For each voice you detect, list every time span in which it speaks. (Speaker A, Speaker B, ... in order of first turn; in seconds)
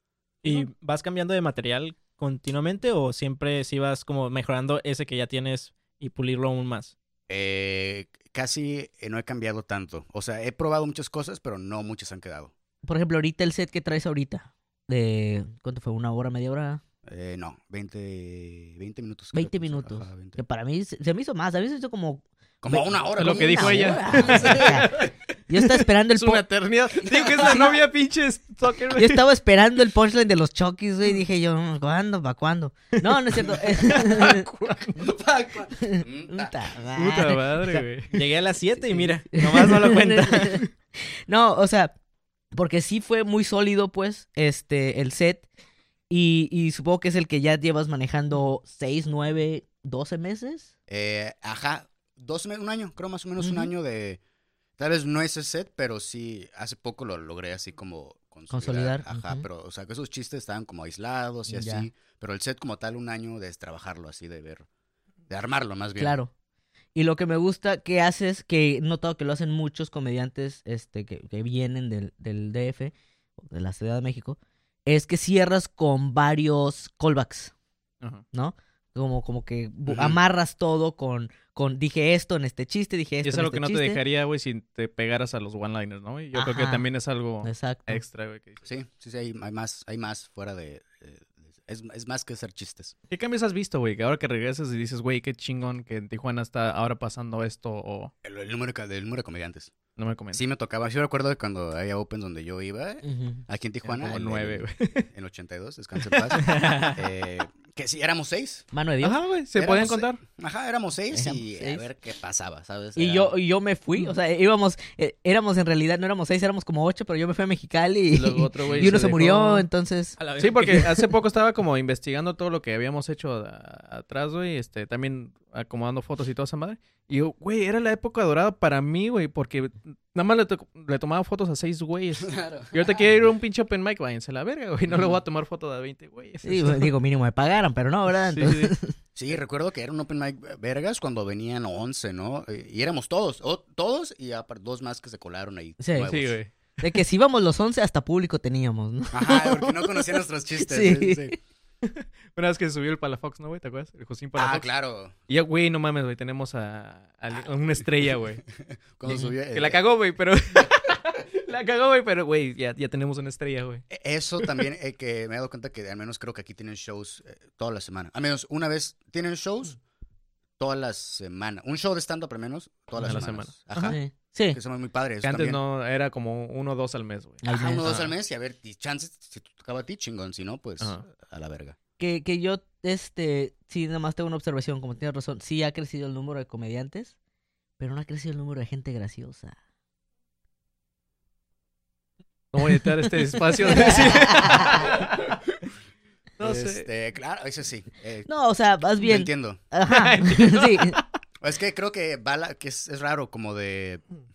Speaker A: 0.4-6.9, 38.1-40.6, 106.5-107.0, 120.2-120.9
Speaker B: 7.3-12.5, 17.1-20.4, 22.6-24.9, 34.9-36.6, 50.9-54.2, 54.8-64.7, 65.3-66.2, 79.9-80.2, 88.6-92.9, 98.2-99.8, 100.3-108.7, 109.5-113.3, 132.2-132.7, 134.9-135.2, 139.2-146.4, 149.1-151.4, 154.3-155.1, 158.5-159.8, 163.9-169.8, 170.6-175.6, 177.4-181.8, 196.4-198.3, 198.9-199.6, 201.4-204.0
Speaker C: 12.8-16.8, 19.3-25.0, 25.5-26.4, 27.4-27.7, 28.9-34.5, 35.8-37.9, 39.3-40.7, 41.3-42.0, 42.5-45.5, 46.1-50.7, 53.4-53.7, 58.5-59.4, 61.5-61.9, 66.0-66.3, 66.9-77.5, 78.3-84.0, 86.3-86.8, 87.4-88.0, 103.0-103.4, 108.7-109.2, 111.1-111.8, 112.9-120.2, 136.4-138.9, 145.8-146.1, 146.8-150.0, 150.6-151.3, 159.1-159.3, 173.0-174.6, 177.4-178.0, 182.0-187.1, 187.8-189.6, 193.6-194.8, 198.3-201.0
Speaker D: 23.2-29.2, 33.8-34.9, 37.0-38.2, 83.2-88.6, 93.1-98.1, 100.0-100.4, 103.8-105.1, 106.0-106.3, 109.0-110.2, 118.1-119.7, 120.4-136.9, 138.3-138.7, 146.0-146.5, 151.8-154.7, 155.3-158.5, 159.5-163.8, 173.0-174.0, 175.2-178.1, 180.8-181.1, 192.5-195.4, 196.4-196.9, 199.9-201.0